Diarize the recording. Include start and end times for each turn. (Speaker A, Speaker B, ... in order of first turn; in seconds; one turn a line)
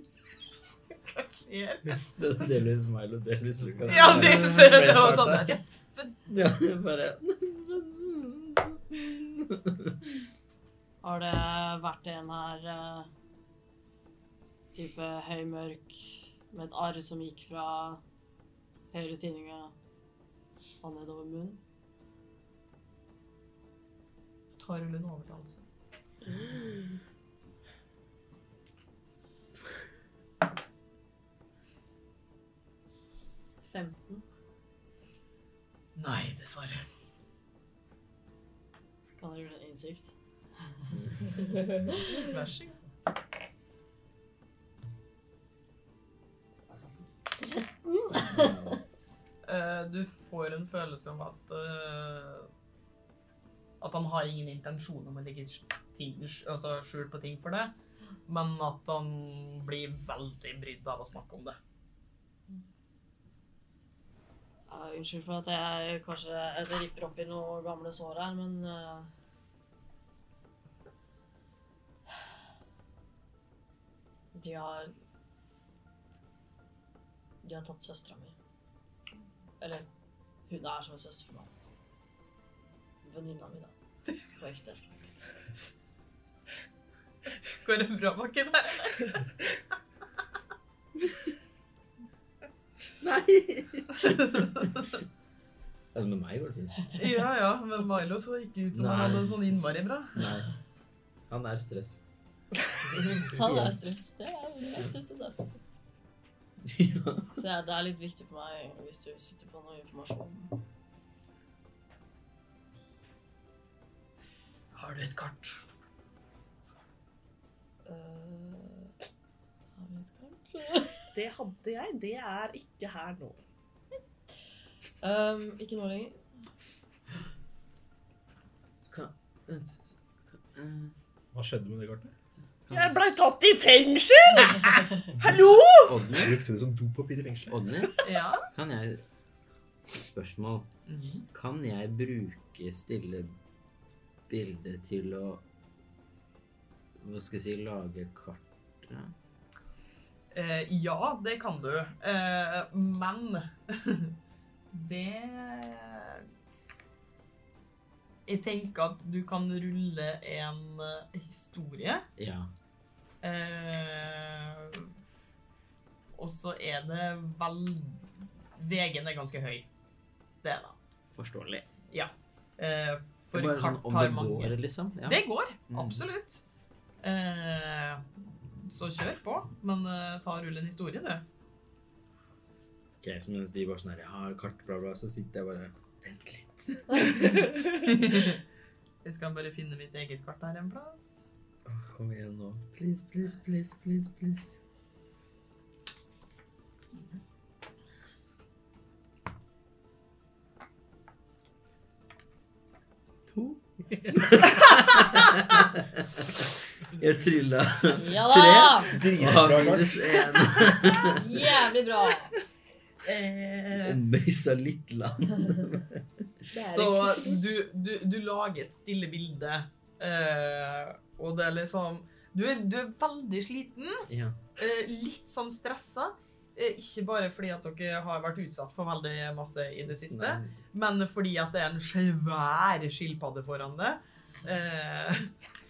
Speaker A: 1.1-2.1
Speaker B: 2.2-5.5
Speaker A: 3.9-6.2
Speaker B: 6.3-10.0
Speaker C: 11.0-13.1
Speaker C: 14.7-18.0
Speaker C: 18.9-19.7
Speaker C: 20.8-21.6
Speaker A: 24.6-25.6
Speaker C: 26.2-27.0
Speaker C: 32.9-34.2
Speaker A: 36.0-36.8
Speaker C: 39.2-40.1
Speaker B: 40.9-41.7
Speaker C: 41.4-42.2
Speaker A: 42.1-42.8
Speaker C: 47.4-48.6
Speaker B: 48.2-48.8
Speaker A: 49.5-52.5
Speaker A: 53.8-57.8
Speaker A: 58.3-61.6
Speaker C: 64.7-69.1
Speaker C: 74.3-74.9
Speaker C: 77.4-78.3
Speaker C: 79.6-79.9
Speaker C: 80.5-81.5
Speaker C: 83.0-83.7
Speaker C: 84.4-84.9
Speaker A: 87.6-89.3
Speaker B: 93.0-94.7
Speaker A: 94.0-95.0
Speaker B: 95.9-97.0
Speaker A: 97.0-100.3
Speaker B: 98.7-99.4
Speaker B: 100.2-100.5
Speaker B: 101.3-102.0
Speaker B: 102.9-103.8
Speaker C: 103.2-105.6
Speaker B: 106.6-107.3
Speaker C: 107.3-110.6
Speaker A: 114.8-115.6
Speaker C: 117.9-118.9
Speaker C: 119.8-121.1
Speaker D: 121.1-123.4
Speaker C: 125.0-126.3
Speaker B: 128.9-130.9
Speaker E: 131.3-132.1
Speaker B: 132.7-133.3
Speaker D: 132.7-135.9
Speaker B: 135.8-136.4
Speaker E: 136.1-137.6
Speaker B: 137.5-139.0
Speaker A: 138.0-138.5
Speaker B: 139.9-140.7
Speaker A: 140.9-141.2
Speaker B: 141.3-143.4
Speaker B: 144.3-145.4
Speaker B: 147.0-149.1
Speaker A: 150.3-154.1
Speaker A: 154.7-156.3
Speaker A: 158.3-162.1
Speaker B: 162.2-162.5
Speaker A: 163.2-164.9
Speaker A: 166.2-169.7
Speaker A: 170.4-170.8
Speaker B: 171.2-171.7
Speaker A: 171.9-176.4
Speaker B: 173.3-176.1
Speaker A: 177.0-178.0
Speaker A: 178.7-181.2
Speaker B: 183.0-187.5
Speaker A: 187.7-188.4
Speaker A: 189.0-191.3
Speaker B: 191.7-194.6
Speaker B: 203.3-211.3
Speaker C: 207.9-209.0
Speaker E: 209.1-210.0
Speaker C: 211.1-212.3
Speaker A: 213.1-213.9
Speaker B: 213.8-216.3
Speaker D: 216.5-217.4
Speaker A: 216.7-235.3
Speaker B: 224.1-224.4
Speaker B: 230.0-230.6